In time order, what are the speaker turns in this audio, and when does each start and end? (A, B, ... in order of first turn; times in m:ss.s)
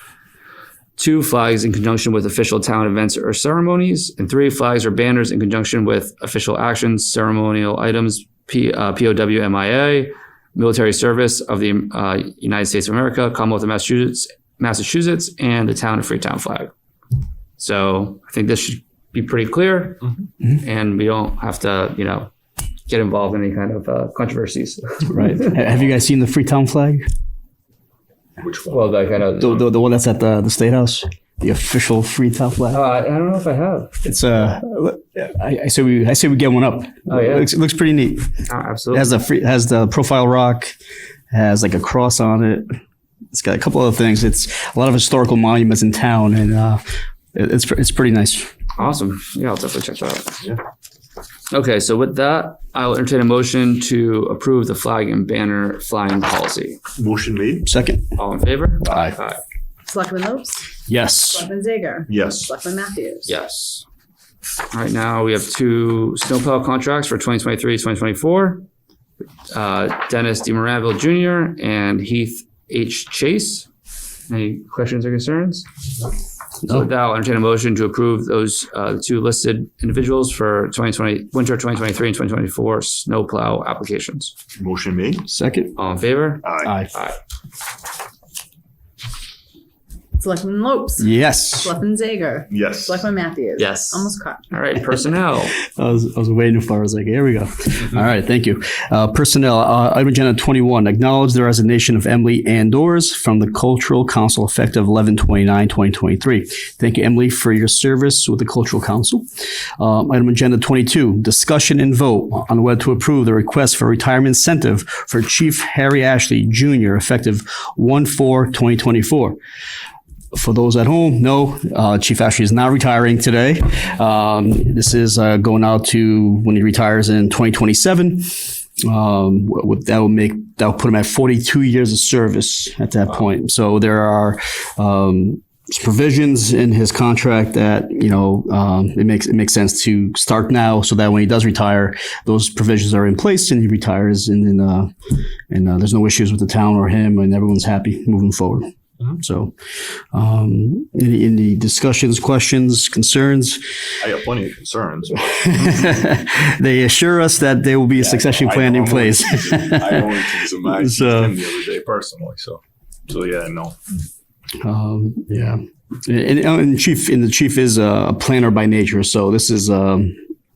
0:01.0-0:16.7 A
0:17.6-0:22.3 A
0:22.9-0:25.6 A
0:25.0-0:27.0 B
0:28.4-0:29.2 C
0:28.7-0:29.7 A
0:29.4-0:32.8 B
0:32.7-0:33.9 A
0:34.0-0:38.3 B
0:37.1-0:37.5 A
0:38.5-0:39.2 A
0:38.9-0:40.7 B
0:41.3-0:42.7 B
0:43.3-0:46.8 B
0:47.3-0:48.5 B
0:48.8-0:50.4 A
0:51.5-0:56.8 A
0:57.0-0:57.7 C
0:57.6-0:58.1 B
0:58.2-0:59.4 A
0:58.8-0:59.2 B
0:59.8-1:00.6 D
1:00.9-1:01.4 B
1:01.3-1:03.4 D
1:02.1-1:02.5 C
1:03.2-1:03.8 A
1:04.7-1:08.6 A
1:09.5-1:13.7 A
1:14.3-1:15.6 A
1:16.6-1:24.3 A
1:24.6-1:25.2 C
1:25.2-1:25.8 B
1:25.8-1:27.2 A
1:26.4-1:26.7 C
1:26.6-1:26.9 B
1:30.2-1:34.4 D
1:31.0-1:31.7 B
1:32.5-1:33.1 C
1:33.6-1:35.5 A
1:35.6-1:49.2 B
1:49.8-1:59.4 B
2:00.3-2:24.9 B
2:25.5-2:29.5 B
2:30.1-2:33.6 B
2:34.0-2:36.0 C
2:35.4-2:40.2 B
2:38.0-2:43.8 C
2:40.7-2:41.4 B
2:44.6-2:50.2 B